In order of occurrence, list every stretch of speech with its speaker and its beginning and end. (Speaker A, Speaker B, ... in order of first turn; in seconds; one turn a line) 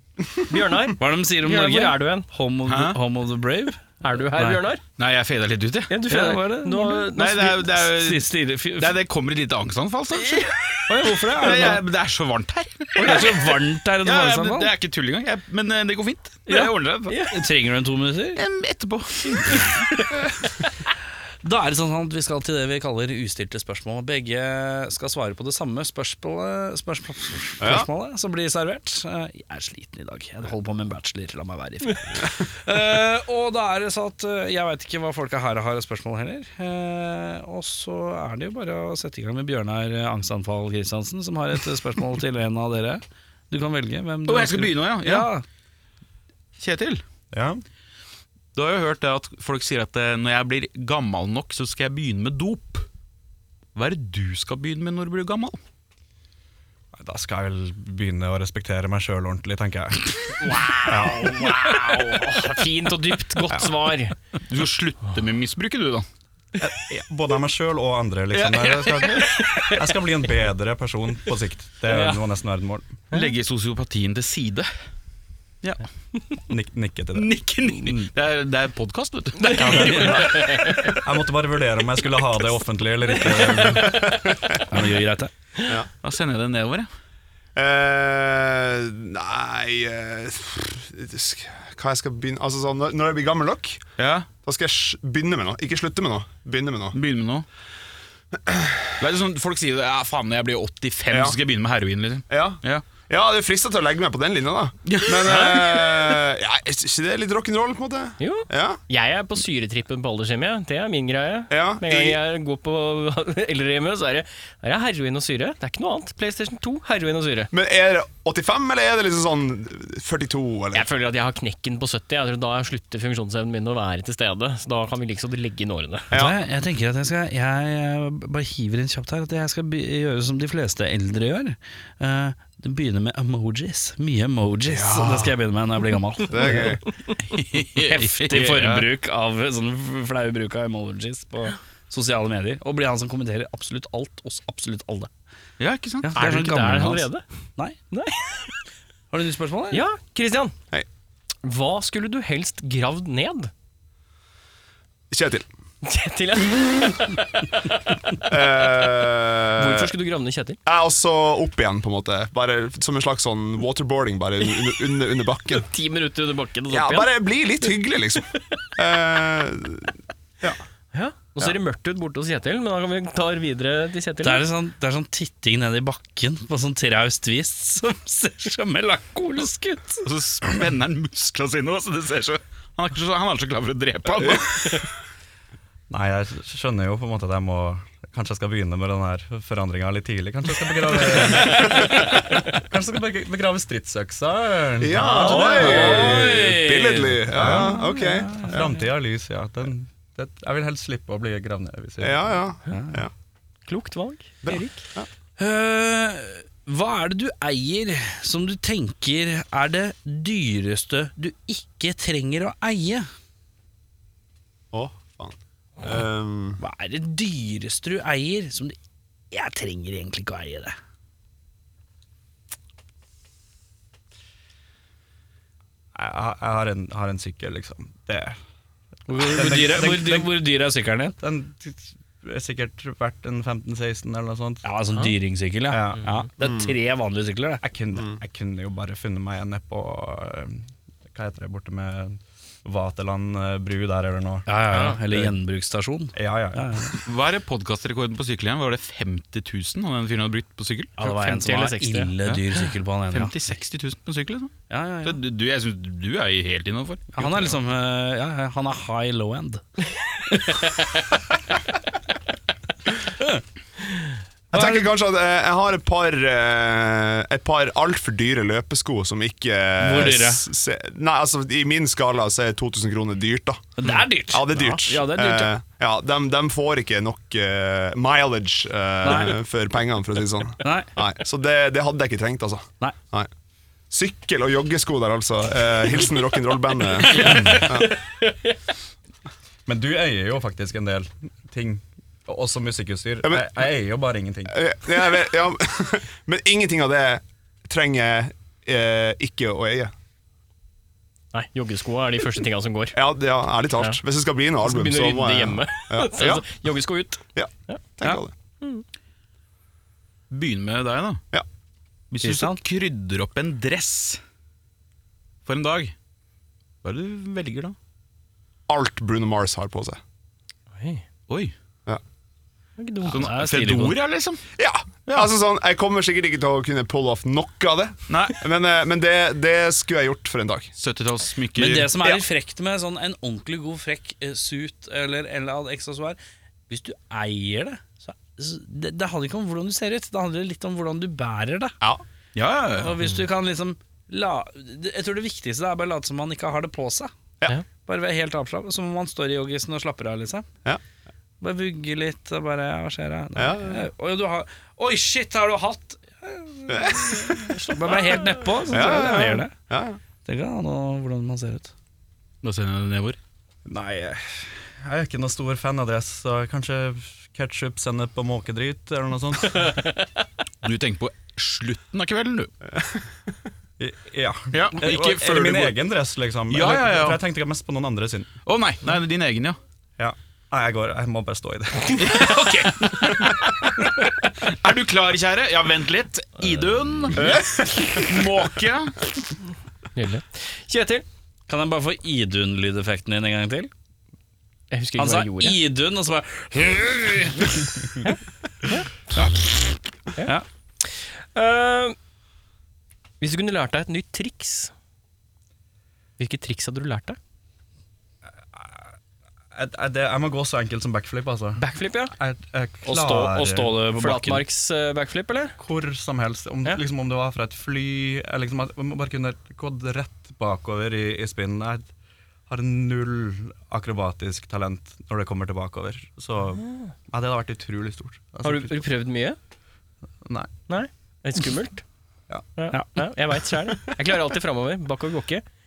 Speaker A: 0.5-2.2
Speaker B: 1.0-4.6
Speaker C: 2.6-3.0
Speaker A: 4.0-4.8
Speaker C: 5.0-5.9
Speaker A: 5.9-7.6
Speaker B: 6.1-9.0
Speaker C: 7.1-17.2
Speaker B: 10.9-11.8
Speaker B: 13.0-14.7
Speaker B: 16.5-16.7
Speaker A: 17.1-17.3
Speaker B: 17.3-18.4
Speaker C: 18.3-19.8
Speaker A: 19.5-19.7
Speaker B: 21.4-45.4
Speaker D: 27.6-27.9
Speaker C: 44.2-45.3
Speaker C: 46.6-47.0
Speaker E: 47.3-47.6
Speaker C: 48.5-52.9
Speaker C: 53.7-55.6
Speaker E: 57.0-61.5
Speaker A: 60.5-64.1
Speaker C: 60.6-62.4
Speaker E: 63.5-63.7
Speaker C: 64.5-66.1
Speaker E: 66.6-72.9
Speaker C: 68.3-69.3
Speaker A: 71.9-72.2
Speaker C: 73.1-74.7
Speaker E: 76.5-78.1
Speaker C: 77.1-80.2
Speaker A: 79.4-81.0
Speaker E: 79.5-84.4
Speaker B: 79.7-80.3
Speaker D: 83.6-84.3
Speaker B: 84.7-85.3
Speaker D: 85.6-85.9
Speaker C: 86.0-86.9
Speaker D: 87.5-93.8
Speaker C: 94.0-94.3
Speaker D: 94.4-97.0
Speaker C: 96.9-97.5
Speaker D: 98.3-98.9
Speaker C: 99.0-102.8
Speaker D: 101.1-101.3
Speaker D: 102.3-108.8
Speaker C: 104.8-105.9
Speaker A: 105.3-105.6
Speaker A: 108.2-117.5
Speaker D: 111.5-112.2
Speaker D: 117.5-120.8
Speaker A: 120.7-126.1
Speaker D: 126.1-126.3
Speaker B: 126.1-136.8
Speaker D: 134.7-135.3
Speaker D: 136.3-136.8
Speaker C: 137.2-138.9
Speaker B: 137.7-145.1
Speaker C: 145.6-146.2
Speaker B: 146.0-147.8
Speaker A: 146.1-147.2
Speaker A: 147.9-148.5
Speaker B: 149.1-149.8
Speaker A: 149.7-150.5
Speaker A: 151.4-153.5
Speaker D: 155.1-155.5
Speaker A: 155.8-157.2
Speaker D: 158.2-159.9
Speaker A: 159.6-160.6
Speaker D: 160.7-165.7
Speaker A: 165.6-167.2
Speaker D: 166.7-170.6
Speaker A: 170.9-174.4
Speaker B: 174.2-180.0
Speaker C: 180.0-184.8
Speaker E: 185.9-196.3
Speaker D: 191.5-191.8
Speaker D: 194.8-198.7
Speaker B: 195.1-198.7
Speaker E: 197.3-197.8
Speaker E: 198.4-202.3
Speaker D: 202.0-203.1
Speaker B: 202.7-203.0
Speaker A: 203.7-204.8
Speaker D: 204.4-205.1
Speaker B: 205.4-213.1
Speaker D: 214.7-216.6
Speaker B: 216.6-218.8
Speaker B: 219.3-220.7
Speaker E: 225.9-228.4
Speaker B: 229.1-231.2
Speaker E: 229.2-230.3
Speaker E: 231.2-234.7
Speaker B: 234.6-237.6
Speaker E: 235.7-236.2
Speaker D: 236.4-236.7
Speaker E: 237.6-244.5
Speaker B: 244.5-246.9
Speaker A: 244.7-245.0
Speaker E: 245.1-245.3
Speaker E: 246.1-246.9
Speaker C: 247.0-250.9
Speaker B: 251.0-253.3
Speaker A: 251.0-252.1
Speaker C: 253.1-257.6
Speaker B: 254.7-255.2
Speaker B: 257.1-259.6
Speaker B: 260.3-260.6
Speaker B: 264.5-264.9
Speaker D: 264.5-273.7
Speaker B: 269.8-270.5
Speaker B: 273.8-275.5
Speaker D: 274.3-283.3
Speaker B: 279.0-279.4
Speaker B: 280.6-280.9
Speaker D: 283.9-288.0
Speaker A: 287.0-288.6
Speaker C: 287.1-287.6
Speaker E: 289.6-294.6
Speaker D: 293.2-293.6
Speaker D: 294.5-299.9
Speaker A: 301.3-303.0
Speaker D: 302.9-306.5
Speaker A: 304.6-307.8
Speaker D: 307.3-308.3
Speaker C: 310.3-311.2
Speaker C: 312.1-314.2
Speaker B: 312.2-312.6
Speaker C: 315.4-315.9
Speaker C: 316.8-317.8
Speaker D: 318.7-320.0
Speaker A: 320.8-321.0
Speaker C: 321.3-321.5
Speaker A: 322.8-323.2
Speaker B: 323.0-324.0
Speaker C: 323.1-324.4
Speaker D: 324.6-330.7
Speaker C: 328.1-328.4
Speaker C: 330.8-332.1
Speaker B: 331.6-336.2
Speaker B: 336.7-341.8
Speaker C: 342.3-343.0
Speaker B: 342.8-347.1
Speaker B: 347.8-350.4
Speaker B: 351.4-359.5
Speaker D: 353.4-353.8
Speaker D: 356.7-357.6
Speaker D: 358.7-360.0
Speaker B: 360.2-361.7
Speaker C: 362.4-363.2
Speaker E: 363.6-369.8
Speaker C: 370.6-372.5
Speaker E: 373.8-378.3
Speaker C: 374.5-375.8
Speaker C: 376.5-377.2
Speaker C: 378.4-379.6
Speaker E: 380.0-382.4
Speaker C: 382.0-383.5
Speaker C: 384.4-389.0
Speaker D: 387.1-388.2
Speaker A: 389.9-391.0
Speaker B: 391.5-393.7
Speaker A: 394.7-395.6
Speaker B: 395.0-397.7
Speaker A: 398.6-398.9
Speaker B: 399.1-399.5
Speaker A: 400.2-402.0
Speaker A: 403.2-404.7
Speaker A: 406.2-407.2
Speaker E: 408.5-408.9
Speaker E: 409.5-413.8
Speaker A: 411.6-412.1
Speaker B: 412.9-414.4
Speaker A: 414.0-415.6
Speaker E: 415.6-421.9
Speaker E: 422.5-428.9
Speaker A: 428.4-429.4
Speaker E: 430.2-430.5
Speaker A: 430.7-431.8
Speaker A: 432.6-435.4
Speaker B: 432.7-433.0